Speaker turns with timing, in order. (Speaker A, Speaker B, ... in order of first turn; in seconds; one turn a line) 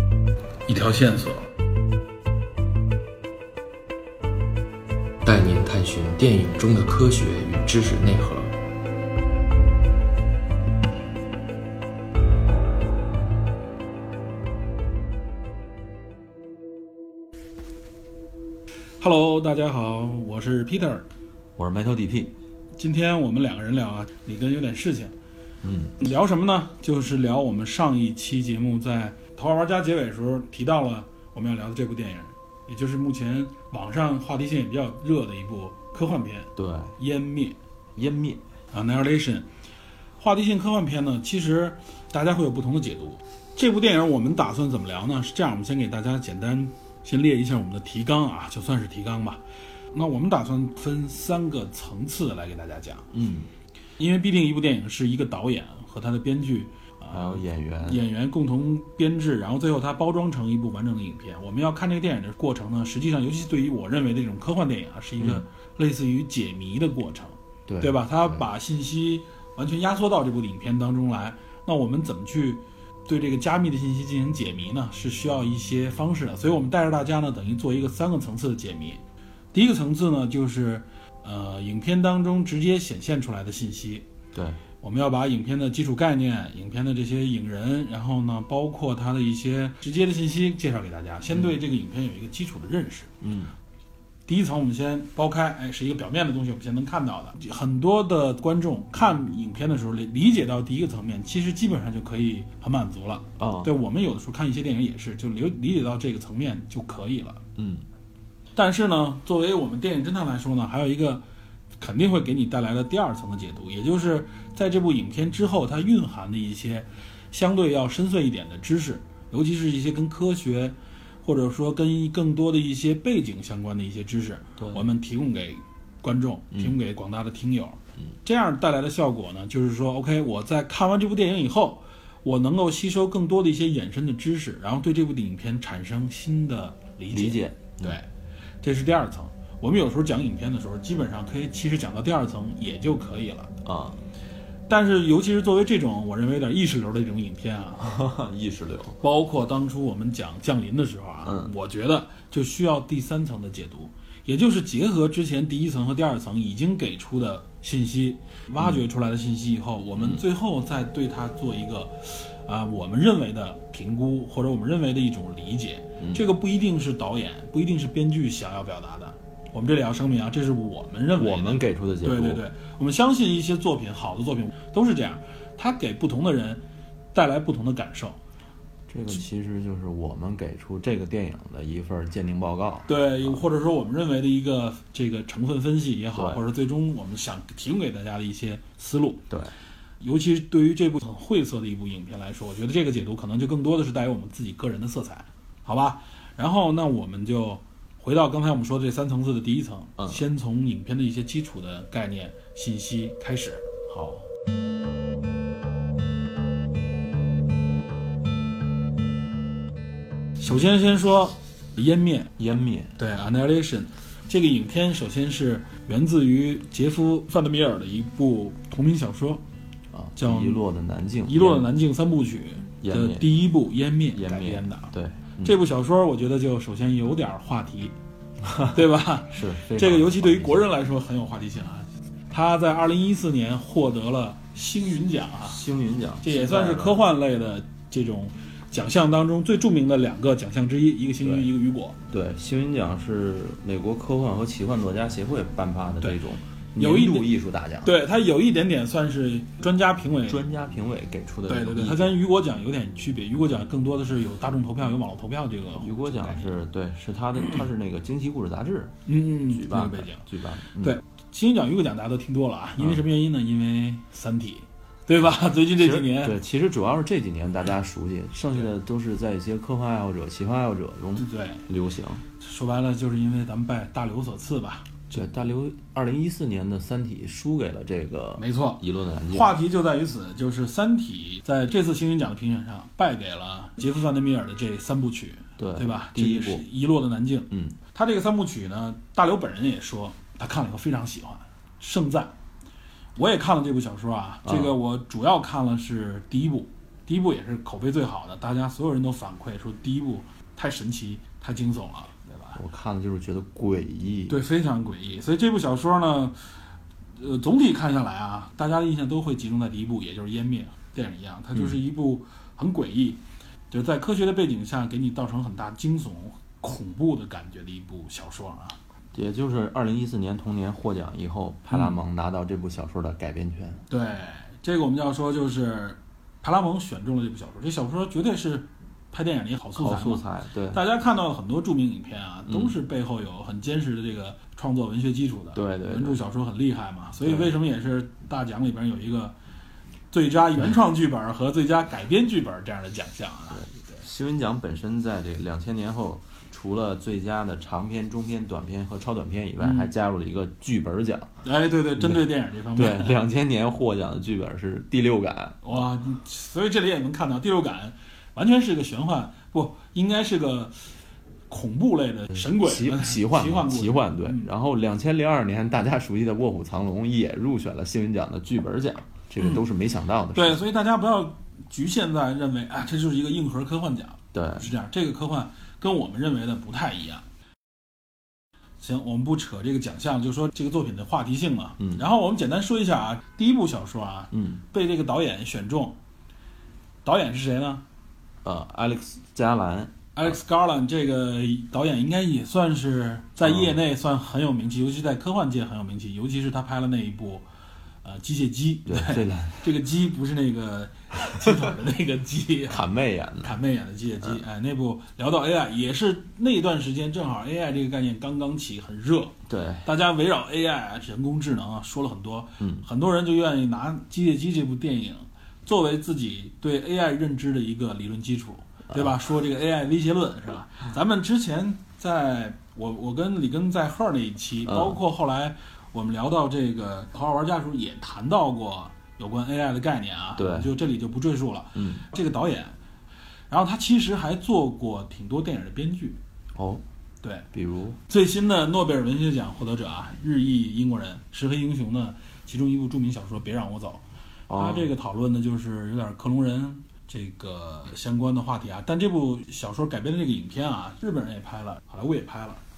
Speaker A: 0.7-1.5
Speaker B: 5.2-8.5
Speaker A: 19.0-21.1
Speaker C: 21.6-22.3
Speaker A: 22.8-25.1
Speaker C: 25.6-25.9
Speaker A: 26.0-37.6
Speaker C: 36.5-37.0
Speaker C: 37.9-38.4
Speaker A: 38.7-39.5
Speaker A: 40.2-49.4
Speaker A: 49.9-53.1
Speaker C: 53.1-53.5
Speaker A: 54.0-79.0
Speaker C: 57.1-58.0
Speaker C: 67.7-68.4
Speaker A: 79.5-84.0
Speaker C: 84.3-84.6
Speaker A: 84.8-93.1
Speaker C: 93.2-93.5
Speaker A: 94.3-107.4
Speaker C: 103.4-103.7
Speaker C: 107.5-107.8
Speaker A: 108.5-111.2
Speaker A: 111.8-138.1
Speaker C: 124.6-124.8
Speaker C: 137.1-138.0
Speaker A: 138.6-143.5
Speaker C: 143.6-144.0
Speaker A: 144.7-147.9
Speaker C: 147.8-149.0
Speaker A: 149.0-176.6
Speaker C: 151.2-151.5
Speaker C: 160.0-160.2
Speaker C: 166.0-166.2
Speaker C: 171.2-172.4
Speaker A: 177.1-178.2
Speaker C: 178.9-183.4
Speaker A: 182.9-189.2
Speaker C: 186.1-186.4
Speaker A: 190.0-204.2
Speaker A: 210.4-212.3
Speaker C: 212.4-212.9
Speaker A: 213.0-219.4
Speaker C: 219.9-221.7
Speaker A: 220.2-220.6
Speaker A: 221.2-227.9
Speaker C: 222.8-223.3
Speaker C: 224.1-225.6
Speaker C: 228.4-228.8
Speaker A: 228.7-235.6
Speaker C: 229.3-230.7
Speaker C: 235.4-237.1
Speaker A: 236.2-242.0
Speaker C: 241.2-241.5
Speaker C: 242.1-247.9
Speaker A: 246.8-247.3
Speaker A: 247.8-250.4
Speaker C: 250.3-252.2
Speaker A: 251.5-256.5
Speaker C: 255.8-258.9
Speaker A: 259.1-260.3
Speaker C: 259.5-261.0
Speaker A: 260.8-266.4
Speaker C: 265.8-272.2
Speaker A: 271.1-271.6
Speaker A: 272.4-275.2
Speaker C: 275.1-279.5
Speaker A: 278.4-292.3
Speaker C: 285.6-286.6
Speaker C: 287.5-287.8
Speaker A: 293.1-302.6
Speaker C: 294.4-294.7
Speaker C: 302.5-304.4
Speaker A: 304.3-306.4
Speaker A: 307.2-318.8
Speaker C: 319.1-323.8
Speaker A: 323.9-339.3
Speaker C: 329.8-330.8
Speaker C: 332.5-332.7
Speaker C: 335.5-336.2
Speaker C: 337.2-337.5
Speaker A: 340.1-344.0
Speaker C: 343.5-351.3
Speaker A: 349.6-349.9
Speaker A: 351.4-353.1
Speaker C: 352.0-355.6
Speaker A: 355.6-360.8
Speaker A: 361.5-364.5
Speaker C: 362.3-370.6
Speaker A: 370.3-377.2
Speaker C: 374.3-374.7
Speaker A: 378.8-386.0
Speaker C: 381.8-382.0
Speaker C: 384.3-384.6
Speaker A: 387.0-387.8
Speaker C: 388.4-390.3
Speaker A: 390.1-397.4
Speaker C: 393.4-393.8
Speaker A: 398.0-402.8
Speaker C: 398.9-399.6
Speaker C: 402.7-403.5
Speaker A: 403.4-432.7
Speaker C: 409.5-409.9
Speaker C: 412.6-412.8
Speaker C: 424.6-425.0
Speaker C: 430.4-430.7
Speaker C: 431.7-432.0
Speaker A: 433.5-436.2
Speaker C: 436.5-436.8
Speaker A: 437.2-437.5
Speaker C: 437.5-438.0
Speaker A: 438.1-444.0
Speaker C: 444.5-444.9
Speaker A: 444.5-452.6